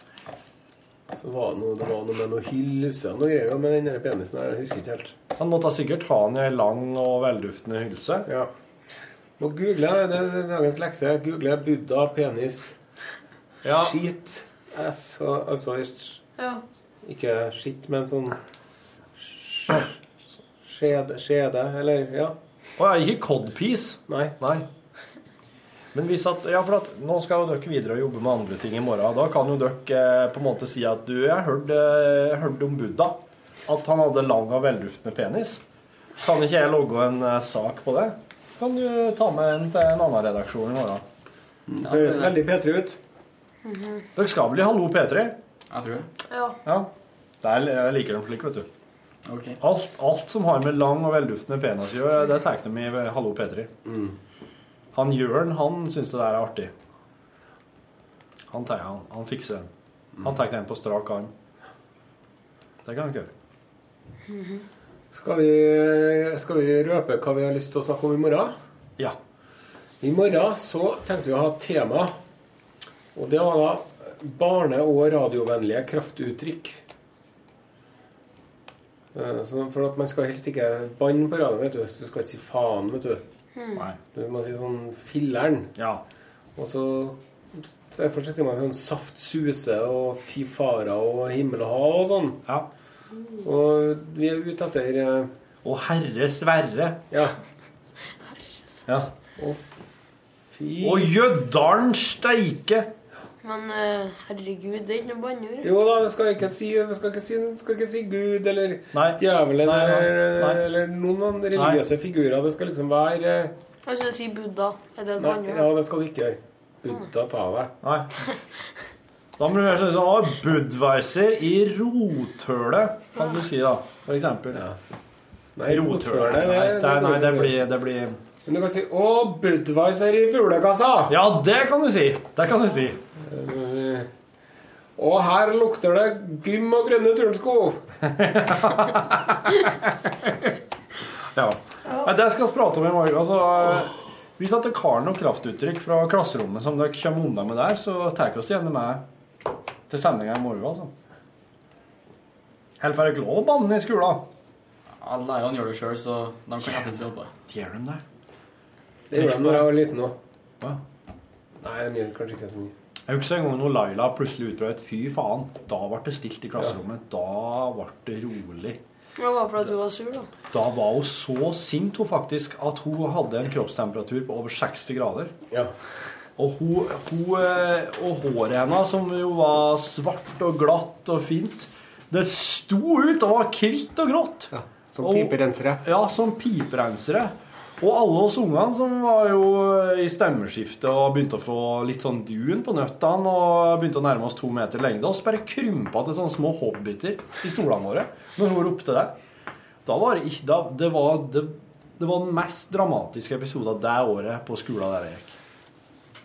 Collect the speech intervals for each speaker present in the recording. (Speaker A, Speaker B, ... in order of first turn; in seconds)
Speaker A: 1.1-5.2, 9.4-12.8, 13.7-16.2, 17.0-18.4, 19.2-20.0, 20.6-22.4, 24.1-24.4, 41.7-43.0, 53.9-54.1, 65.1-68.5, 70.0-72.1, 73.1-76.8, 79.1-83.2, 84.1-85.7, 86.6-92.4, 93.4-95.3, 97.1-97.4, 99.4-99.9, 100.5-101.1, 105.6-113.5, 115.2-117.7, 125.6-127.6, 128.4-131.2, 133.2-134.1, 135.0-137.8, 159.1-160.2, 161.6-162.8, 184.5-185.8
Speaker B: 5.4-8.3, 13.6-14.0, 22.8-24.7, 25.9-35.6, 36.2-41.0, 44.2-45.4, 46.6-46.9, 47.4-48.7, 49.6-53.7, 54.9-56.7, 58.5-59.7, 60.2-61.3, 62.9-63.3, 85.8-86.0, 95.6-97.0, 100.8-102.9, 108.9-110.6, 111.6-111.8, 117.8-118.1, 119.4-124.6, 125.7-128.2, 131.1-133.0, 138.0-140.5, 141.3-149.0, 149.9-150.9, 152.8-154.3, 157.5-158.0, 159.1-159.7, 163.1-168.8, 170.5-175.3, 176.4-199.2, 199.9-205.3
Speaker C: 16.4-16.6, 43.6-44.1, 46.3-46.6, 64.3-64.6, 83.6-83.8, 103.4-105.7, 113.9-115.7, 169.2-170.3
Speaker D: 41.8-42.4, 45.7-46.1, 49.2-49.6, 155.0-157.3